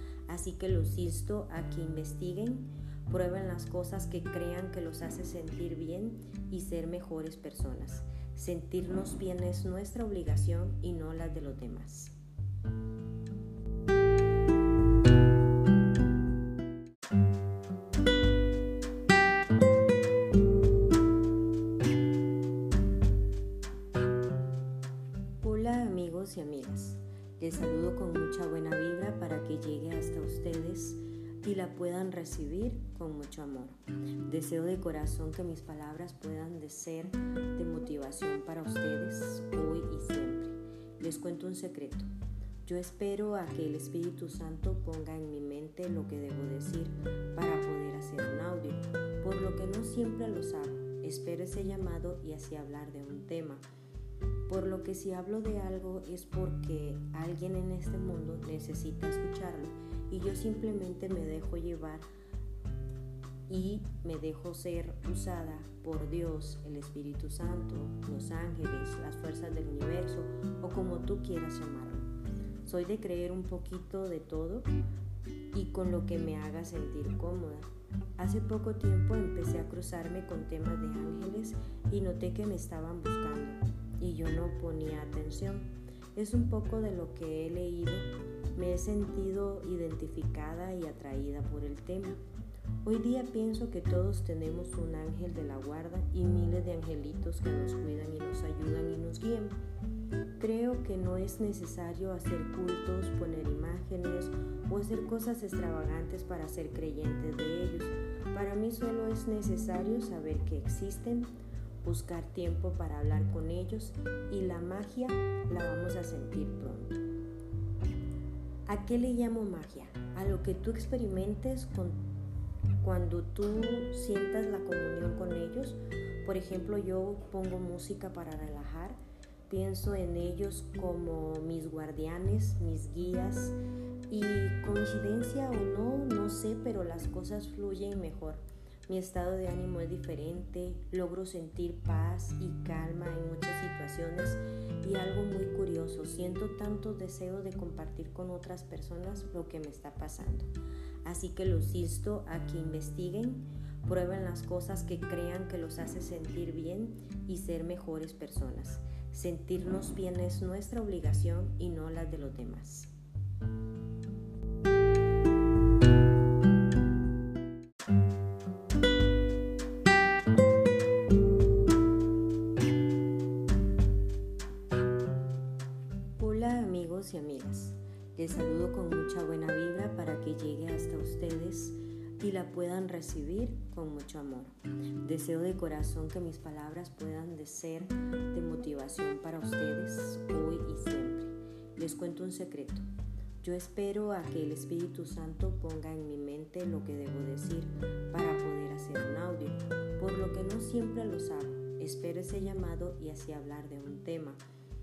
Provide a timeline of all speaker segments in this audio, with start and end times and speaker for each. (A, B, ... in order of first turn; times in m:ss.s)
0:00.3-0:12.2 A
0:25.4-0:42.1 A
0:42.6-0:53.7 A
0:54.5-1:02.1 A
1:03.5-1:12.1 A
1:12.6-1:14.7 A
1:15.5-1:32.2 A
1:32.8-1:39.6 A
1:40.4-1:57.0 A
1:58.7-2:02.0 A
2:02.8-2:13.6 A
2:14.1-2:30.5 A
2:31.0-2:42.9 A
2:56.2-3:12.9 A
3:13.4-3:24.4 A